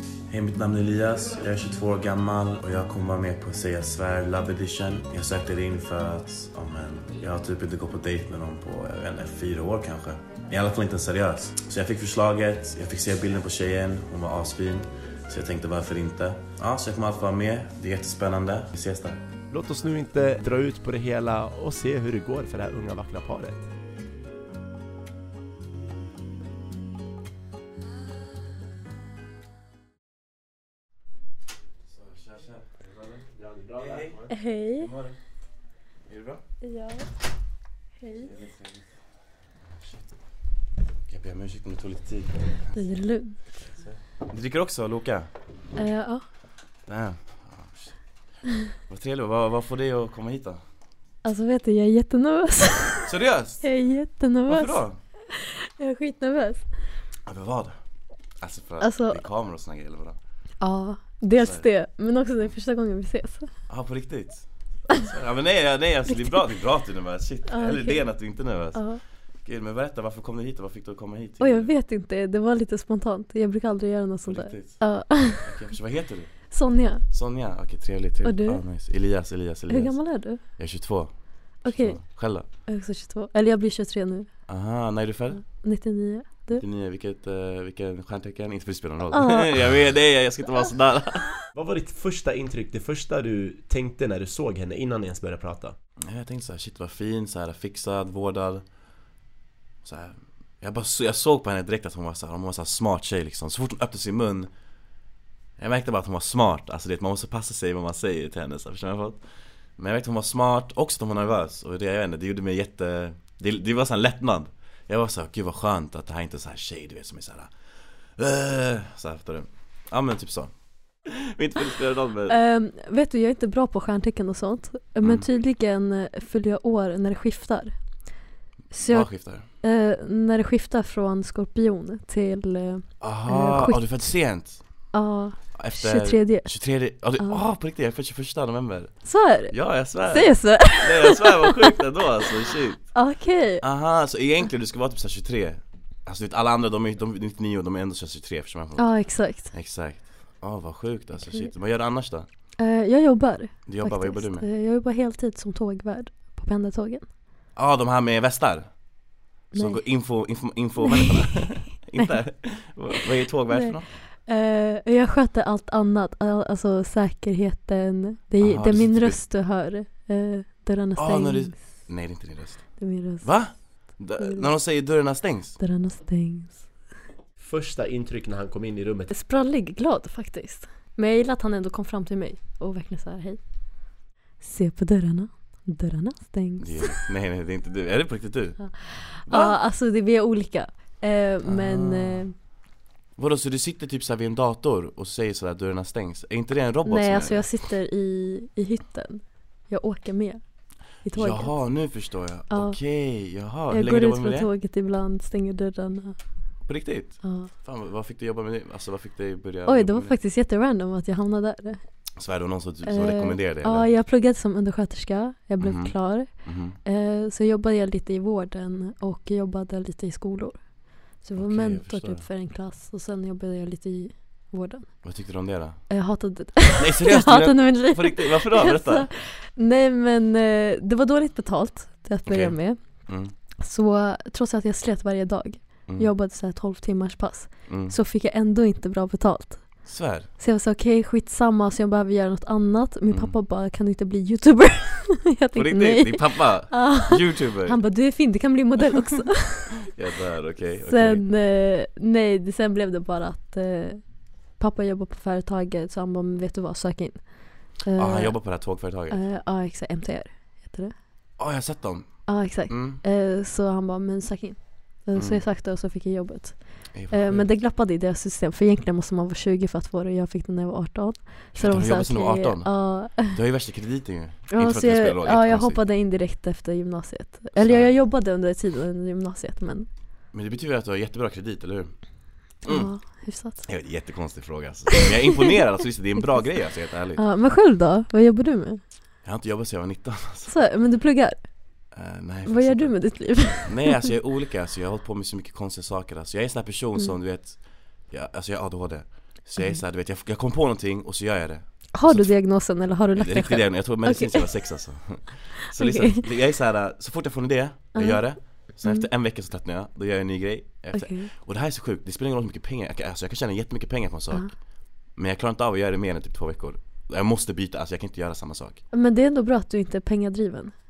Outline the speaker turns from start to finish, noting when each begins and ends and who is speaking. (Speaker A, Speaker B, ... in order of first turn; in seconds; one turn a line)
Speaker A: 0.3-19.2
Speaker B: 19.5-23.7
Speaker A: 31.9-32.7
Speaker B: 33.1-34.2
Speaker A: 33.8-34.2
Speaker C: 34.3-34.9
Speaker A: 34.8-35.2
Speaker A: 36.1-36.4
Speaker C: 36.6-37.1
Speaker C: 38.0-38.3
Speaker A: 38.2-38.9
Speaker A: 41.1-42.9
Speaker C: 42.7-43.4
Speaker A: 43.7-45.3
Speaker C: 45.8-46.2
Speaker A: 46.9-48.0
Speaker A: 48.9-50.6
Speaker C: 51.2-53.1
Speaker A: 53.1-53.6
Speaker C: 53.6-56.6
Speaker A: 54.5-55.0
Speaker A: 57.3-57.8
Speaker A: 58.4-60.2
Speaker C: 58.8-59.2
Speaker C: 60.6-63.5
Speaker A: 61.4-61.7
Speaker A: 63.7-68.8
Speaker C: 66.1-66.4
Speaker C: 67.5-68.0
Speaker C: 68.7-69.0
Speaker A: 69.4-71.7
Speaker C: 71.4-75.5
Speaker A: 74.3-74.8
Speaker A: 75.4-76.3
Speaker C: 76.5-77.0
Speaker A: 77.1-80.0
Speaker C: 78.2-78.6
Speaker C: 79.7-80.4
Speaker A: 80.6-81.1
Speaker C: 81.6-82.0
Speaker A: 81.7-82.5
Speaker C: 82.7-84.3
Speaker A: 84.5-85.4
Speaker C: 85.4-86.6
Speaker A: 86.6-91.3
Speaker C: 89.1-89.6
Speaker B: 91.5-95.8
Speaker A: 96.0-98.7
Speaker A: 99.8-104.5
Speaker A: 105.6-109.2
Speaker A: 109.8-117.5
Speaker A: 118.2-120.5
Speaker A: 121.0-122.4
Speaker C: 122.3-127.8
Speaker C: 128.7-129.1
Speaker A: 128.9-129.4
Speaker C: 129.6-133.9
Speaker A: 133.0-134.6
Speaker C: 134.9-136.5
Speaker A: 135.6-138.9
Speaker C: 139.1-139.6
Speaker A: 139.5-142.8
Speaker C: 140.1-141.8
Speaker C: 142.9-143.6
Speaker A: 143.6-148.8
Speaker C: 148.8-149.5
Speaker A: 149.5-152.3
Speaker C: 152.6-157.1
Speaker A: 153.7-154.5
Speaker A: 157.6-158.7
Speaker C: 159.5-159.8
Speaker A: 159.5-163.9
Speaker C: 160.8-162.2
Speaker C: 163.5-171.6
Speaker A: 168.4-169.2
Speaker A: 171.0-172.7
Speaker C: 172.8-173.3
Speaker A: 173.2-175.6
Speaker C: 173.9-174.5
Speaker C: 175.6-176.7
Speaker B: 177.4-179.1
Speaker C: 179.1-183.4
Speaker C: 184.4-187.1
Speaker A: 186.6-188.6
Speaker C: 188.6-192.3
Speaker A: 189.3-189.6
Speaker A: 191.5-192.3
Speaker A: 193.2-197.4
Speaker C: 196.9-200.4
Speaker C: 201.0-201.5
Speaker A: 201.2-204.5
Speaker C: 202.5-202.8
Speaker C: 203.7-206.2
Speaker A: 206.7-210.2
Speaker C: 207.2-207.5
Speaker C: 209.7-211.8
Speaker A: 212.2-213.9
Speaker C: 212.8-216.3
Speaker A: 215.6-216.8
Speaker C: 216.8-220.7
Speaker C: 221.2-224.9
Speaker A: 221.4-222.2
Speaker A: 225.0-225.8
Speaker C: 225.9-232.8
Speaker A: 226.8-229.1
Speaker A: 232.3-233.3
Speaker C: 233.6-239.7
Speaker A: 237.7-238.0
Speaker A: 239.8-240.3
Speaker C: 240.4-249.8
Speaker A: 245.6-247.8
Speaker A: 249.8-251.2
Speaker C: 250.9-254.0
Speaker C: 254.6-258.4
Speaker A: 257.9-259.2
Speaker C: 259.1-260.9
Speaker A: 261.4-263.0
Speaker C: 262.3-273.4
Speaker A: 265.2-265.4
Speaker A: 266.9-267.4
Speaker A: 271.6-275.8
Speaker C: 274.5-279.9
Speaker A: 277.6-277.9
Speaker A: 280.3-281.9
Speaker A: 282.6-282.9
Speaker C: 282.7-283.6
Speaker A: 283.6-287.2
Speaker C: 287.2-288.8
Speaker A: 289.2-290.6
Speaker C: 290.5-291.4
Speaker A: 291.9-297.6
Speaker C: 292.5-294.0
Speaker A: 298.1-302.3
Speaker C: 301.9-304.6
Speaker A: 303.1-314.5
Speaker C: 305.7-306.2
Speaker C: 307.9-308.2
Speaker C: 310.9-311.3
Speaker A: 315.2-318.8
Speaker C: 318.9-320.7